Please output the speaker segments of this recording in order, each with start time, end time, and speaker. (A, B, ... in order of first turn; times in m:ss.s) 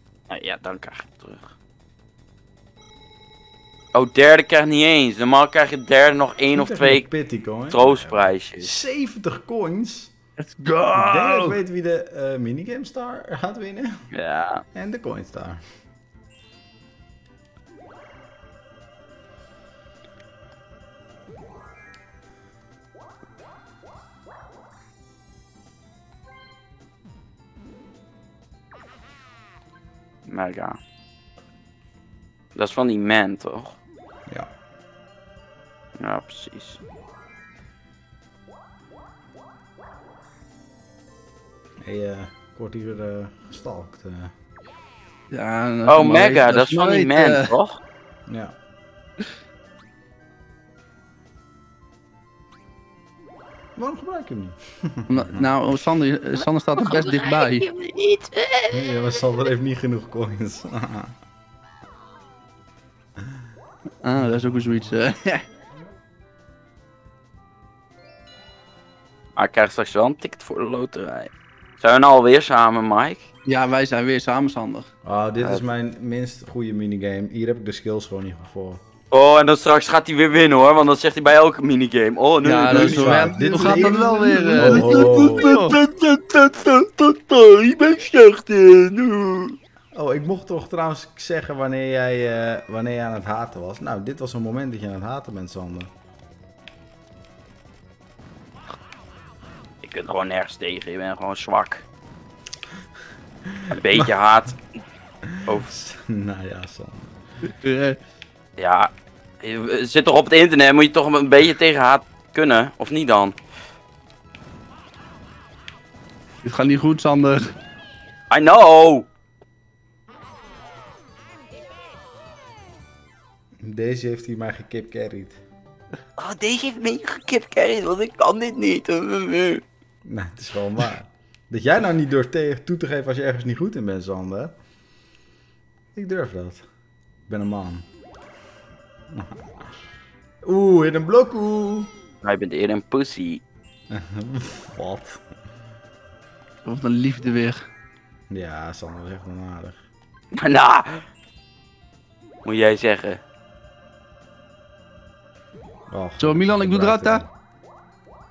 0:00.3-0:01.4 A
0:03.9-0:07.1 A
0:06.5-0:10.1 B
0:07.7-0:08.8 A
0:10.4-0:11.6 C
0:11.0-0:14.1 B
0:14.1-0:14.6 A
0:14.7-0:15.6 B
0:30.3-0:30.8 A
0:32.6-0:33.8 A
0:36.0-0:36.8 A
0:41.8-0:44.3 B
0:45.3-0:47.6 C
0:45.9-0:47.8 A
0:48.3-0:48.6 B
0:53.8-0:55.5 B
0:55.1-0:57.8 C
0:56.8-0:58.5 A
0:58.5-0:58.8 C
0:58.7-1:01.2 B
1:04.0-1:05.4 C
1:04.2-1:04.6 B
1:09.4-1:13.3 A
1:13.5-1:14.9 C
1:15.0-1:18.8 B
1:19.1-1:23.9 A
1:22.4-1:25.8 C
1:22.7-1:25.6 B
1:24.5-1:29.6 A
1:29.9-1:35.9 B
1:39.8-1:41.8 A
1:43.5-1:44.1 B
1:43.7-1:44.6 A
1:45.2-1:47.1 B
1:47.4-1:48.0 C
1:48.6-1:53.4 A
1:56.4-1:57.5 C
1:58.3-1:59.1 A
2:03.6-2:05.4 B
2:06.2-2:09.6 A
2:10.0-2:14.6 B
2:15.9-2:16.7 B
2:17.3-2:17.9 B
2:19.1-2:19.5 B
2:20.4-2:21.9 B
2:22.2-2:23.4 A
2:23.9-2:25.2 B
2:26.6-2:27.7 C
2:28.3-2:29.8 B
2:30.3-2:31.1 A
2:32.4-2:33.2 A
2:35.9-2:37.3 B
2:36.2-2:37.2 C